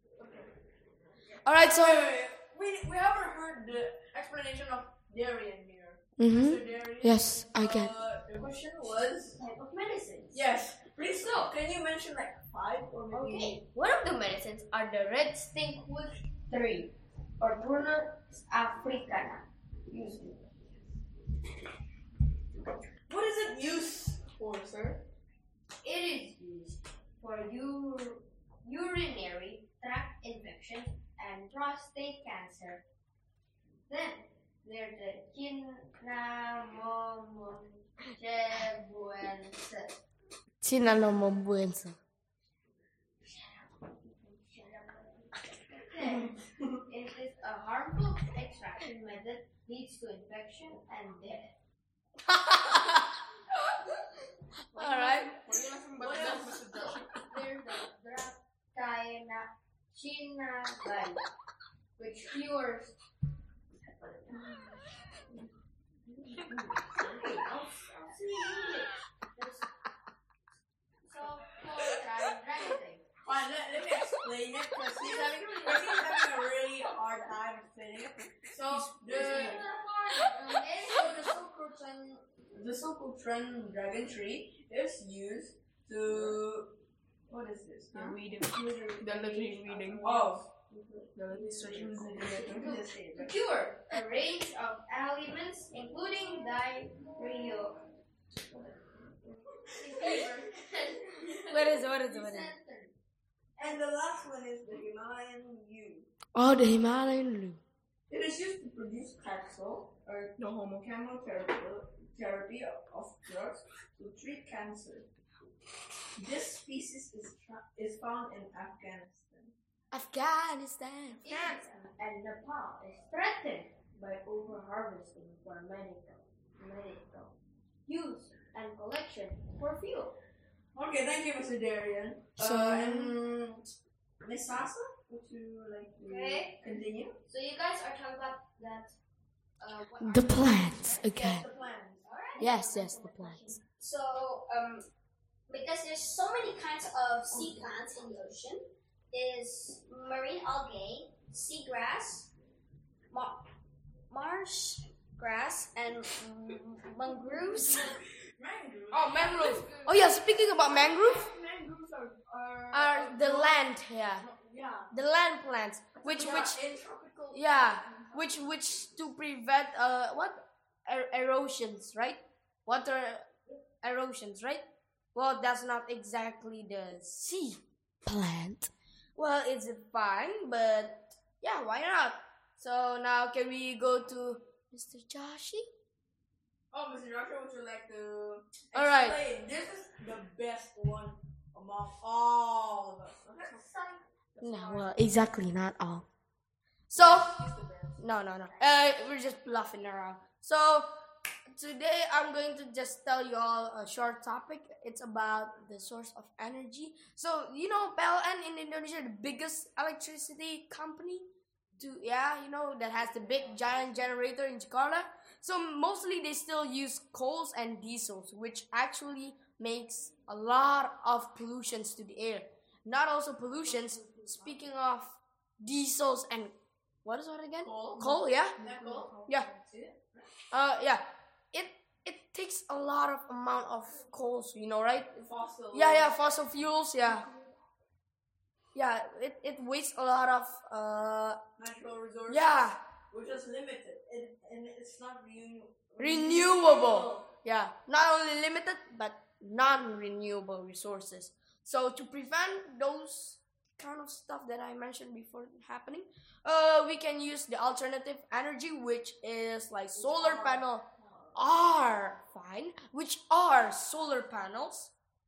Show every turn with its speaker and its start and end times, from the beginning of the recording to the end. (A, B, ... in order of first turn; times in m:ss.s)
0:01.4-0:02.1 A
0:01.6-0:09.4 B
0:06.2-0:07.9 A
0:09.4-0:10.4 C
0:10.3-0:13.6 B
0:11.2-0:11.5 C
0:13.1-0:20.5 C
0:23.1-0:25.0 B
0:25.8-0:32.8 C
0:33.9-0:40.0 C
0:40.6-0:42.0 A
0:43.2-0:46.4 C
0:46.9-0:51.5 C
0:52.2-0:53.1 A
0:54.7-0:55.4 A
0:54.8-0:57.1 D
0:56.0-1:01.2 C
1:02.0-1:02.9 C
1:03.9-1:05.5 C
1:06.1-1:09.6 C
1:11.0-1:13.0 C
1:13.2-1:19.6 B
1:15.0-1:16.2 C
1:19.0-1:21.4 C
1:20.8-1:26.7 B
1:27.3-1:28.2 B
1:27.9-1:37.8 C
1:28.0-1:30.3 D
1:30.0-1:30.4 B
1:31.2-1:32.6 D
1:31.5-1:33.4 B
1:38.5-1:42.9 C
1:39.8-1:40.4 B
1:41.5-1:42.6 A
1:43.6-1:46.1 B
1:46.3-1:47.6 A
1:48.1-1:55.1 B
1:50.4-1:50.8 D
1:56.2-1:59.5 B
1:59.9-2:01.7 A
2:01.2-2:07.4 C
2:07.9-2:10.2 C
2:10.8-2:13.7 B
2:12.4-2:13.2 A
2:14.2-2:17.2 B
2:16.0-2:16.6 C
2:17.3-2:19.0 C
2:19.6-2:21.1 C
2:20.0-2:21.5 A
2:21.0-2:22.0 B
2:22.0-2:23.6 C
2:22.4-2:23.6 A
2:23.7-2:24.6 E
2:25.5-2:32.3 E
2:27.3-2:27.6 C
2:33.1-2:33.4 E
2:34.1-2:37.9 E
2:36.8-2:37.7 C
2:38.4-2:39.3 B
2:38.9-2:40.0 D
2:39.2-2:41.3 A
2:40.6-2:43.6 B
2:42.7-2:44.3 A
2:44.2-2:44.9 B
2:44.9-2:46.6 A
2:46.0-2:48.4 B
2:47.3-3:05.7 A
3:06.7-3:13.7 B
3:08.7-3:09.2 A
3:13.6-3:14.0 C
3:14.4-3:14.8 B
3:14.4-3:16.1 A
3:16.9-3:17.4 A
3:16.9-3:18.0 B
3:18.0-3:21.0 A
3:21.5-3:31.3 A
3:31.8-3:48.6 A
3:32.9-3:33.9 B
3:44.0-3:44.6 B
3:47.6-3:50.3 B
3:49.2-3:49.5 A
3:50.5-3:57.3 A
3:55.2-3:56.1 B
3:58.8-4:01.4 A
4:01.6-4:07.3 B
4:02.3-4:02.8 A
4:06.0-4:24.9 A
4:19.9-4:21.7 B